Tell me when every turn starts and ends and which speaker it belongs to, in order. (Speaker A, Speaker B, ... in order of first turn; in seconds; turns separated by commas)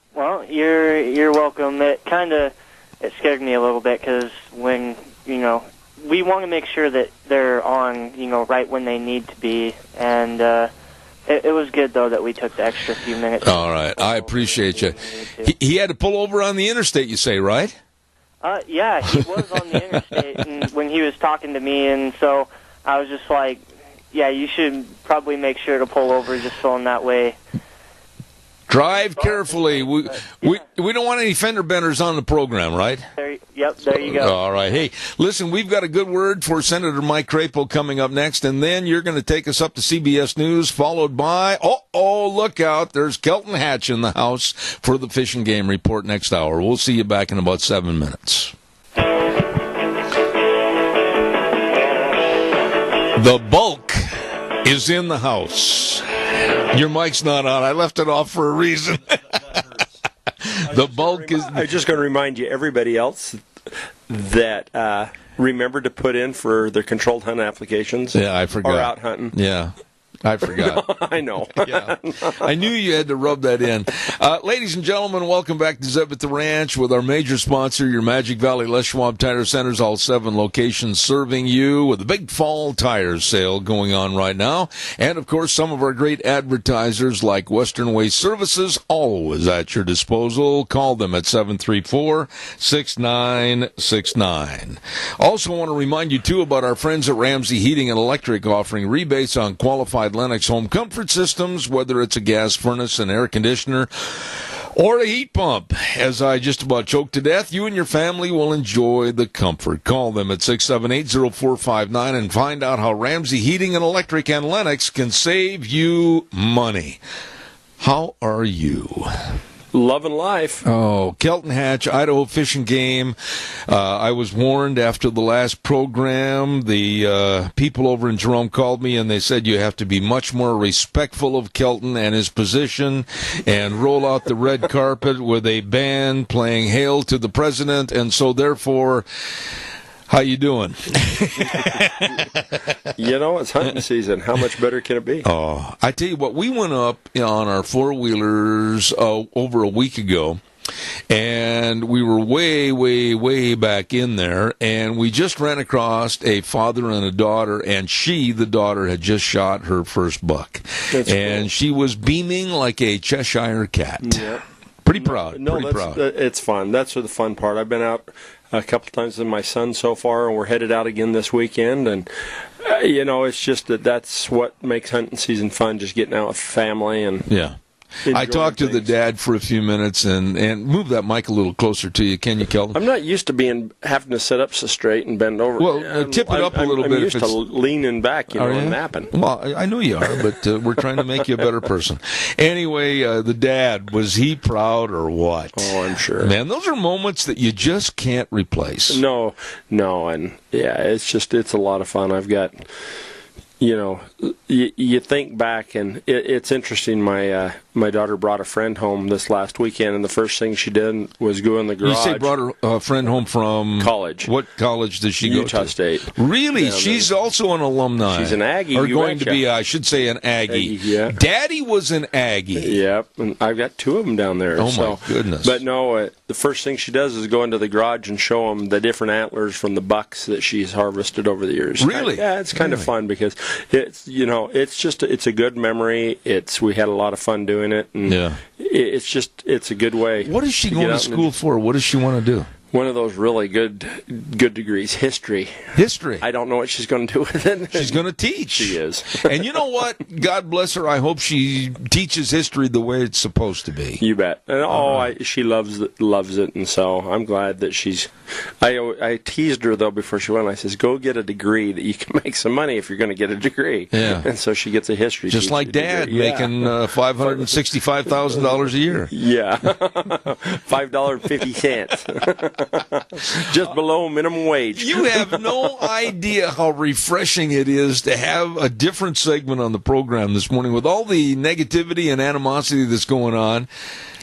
Speaker A: 0.1-10.7, Speaker A: 11.3-15.5, Speaker B: 13.4-17.7, Speaker A: 18.4-27.4, Speaker B: 28.7-33.1, Speaker A: 29.1-30.6, Speaker A: 33.2-34.4, Speaker B: 34.0-48.5, Speaker B: 53.1-54.0, Speaker B: 54.6-59.6, Speaker B: 60.4-61.6, Speaker C: 60.6-63.4, Speaker C: 64.1-69.3, Speaker B: 68.1-70.9, Speaker C: 70.4-72.5, Speaker B: 71.6-117.0, Speaker B: 117.8-119.1, Speaker C: 119.7-120.6, Speaker B: 120.7-123.2, Speaker B: 123.7-139.1, Speaker B: 140.1-142.8, Speaker C: 142.9-145.3, Speaker B: 145.2-150.4, Speaker B: 151.1-164.3, Speaker C: 160.9-161.5, Speaker C: 164.0-177.3, Speaker B: 164.8-166.0, Speaker B: 177.3-177.6, Speaker C: 178.1-178.9, Speaker B: 178.1-182.8, Speaker C: 182.7-189.1, Speaker B: 185.6-187.4, Speaker B: 188.3-199.0, Speaker C: 195.6-196.3, Speaker C: 198.9-202.7, Speaker C: 203.6-212.3, Speaker B: 211.8-222.8, Speaker C: 213.8-214.3, Speaker C: 215.2-217.1, Speaker C: 218.1-219.4, Speaker C: 220.5-221.2, Speaker C: 222.6-241.3, Speaker B: 224.6-225.6, Speaker B: 231.8-232.9, Speaker B: 238.1-238.4, Speaker B: 240.2-242.5, Speaker C: 242.7-249.5, Speaker B: 245.8-246.2, Speaker B: 247.7-254.0, Speaker C: 254.0-267.6, Speaker B: 254.7-255.1, Speaker B: 263.9-264.3, Speaker B: 265.3-269.1, Speaker C: 269.1-275.7, Speaker B: 274.8-283.7